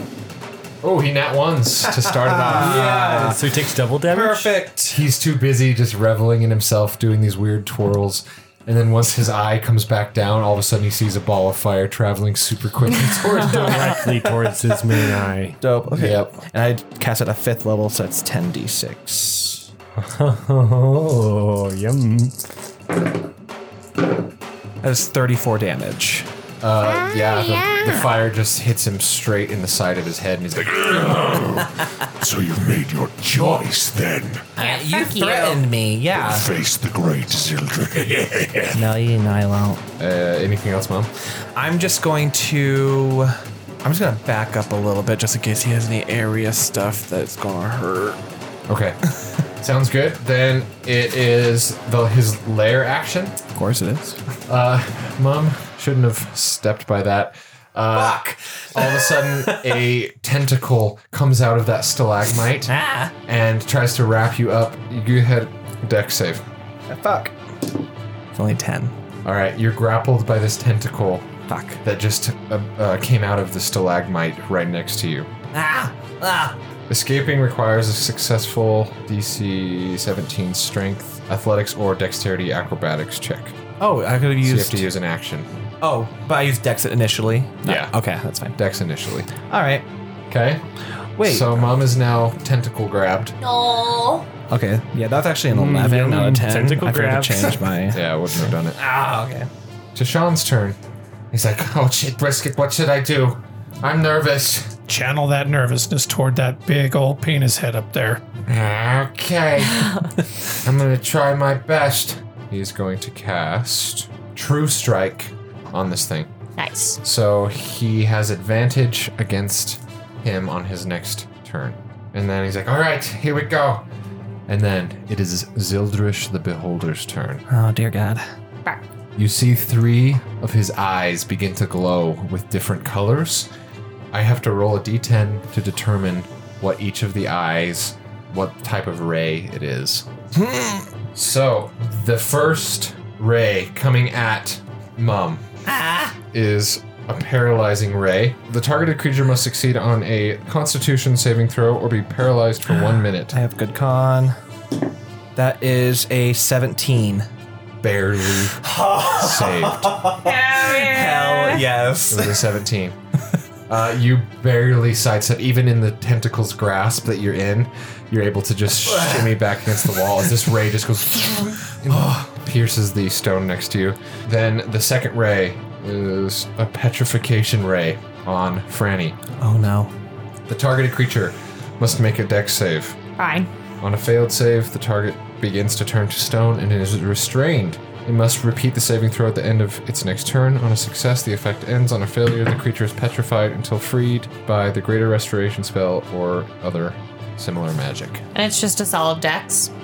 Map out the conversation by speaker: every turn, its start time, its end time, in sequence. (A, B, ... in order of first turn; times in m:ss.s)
0:00.8-0:02.9 A
0:02.2-0:03.4 B
0:02.5-0:04.6 C
0:04.1-0:05.0 B
0:04.9-0:13.8 A
0:13.3-0:15.6 C
0:13.8-0:15.0 B
0:15.6-0:19.7 B
0:15.9-0:16.4 A
0:20.0-0:22.5 C
0:24.8-0:26.3 B
0:26.6-0:31.6 A
0:26.8-0:27.9 D
0:30.6-0:34.5 E
0:31.8-0:32.1 B
0:33.4-0:33.6 B
0:34.6-0:36.5 B
0:34.6-0:35.6 D
0:36.1-0:38.9 E
0:38.7-0:39.8 B
0:40.0-0:41.1 A
0:41.5-0:48.2 B
0:48.7-0:49.0 A
0:49.6-0:53.4 A
0:53.5-0:54.2 B
0:54.5-1:06.4 A
0:57.9-0:59.8 B
1:02.7-1:03.1 B
1:06.9-1:07.4 B
1:08.3-1:08.9 B
1:09.2-1:11.3 A
1:11.5-1:11.8 B
1:11.8-1:15.3 A
1:15.5-1:16.6 B
1:16.9-1:23.6 A
1:23.8-1:24.8 B
1:24.4-1:25.5 A
1:25.8-1:28.6 B
1:27.6-1:27.9 A
1:28.5-1:29.3 A
1:29.4-1:29.9 B
1:30.3-1:30.6 A
1:31.2-1:31.7 B
1:31.2-1:33.4 A
1:33.4-1:34.3 D
1:34.5-1:39.5 B
1:35.5-1:37.7 C
1:37.9-1:38.8 A
1:39.9-1:40.8 A
1:41.3-1:44.7 A
1:44.9-1:48.2 F
1:48.4-1:56.3 A
1:56.6-1:57.0 D
1:57.0-2:03.9 A
2:04.5-2:07.4 A
2:07.5-2:08.3 B
2:09.1-2:13.5 A
2:14.1-2:20.1 A
2:20.3-2:20.9 B
2:21.1-2:25.4 A
2:25.6-2:26.2 B
2:26.3-2:33.4 A
2:32.7-2:34.4 B
2:35.4-2:37.3 B
2:37.8-2:40.0 A
2:38.5-2:42.4 B
2:40.2-2:41.6 D
2:42.1-2:43.0 A
2:43.7-2:59.2 A
2:48.8-2:50.3 B
2:51.8-2:52.3 B
2:59.4-2:59.9 B
3:00.5-3:03.0 A
3:03.2-3:03.5 D
3:03.8-3:18.2 A
3:18.3-3:19.7 D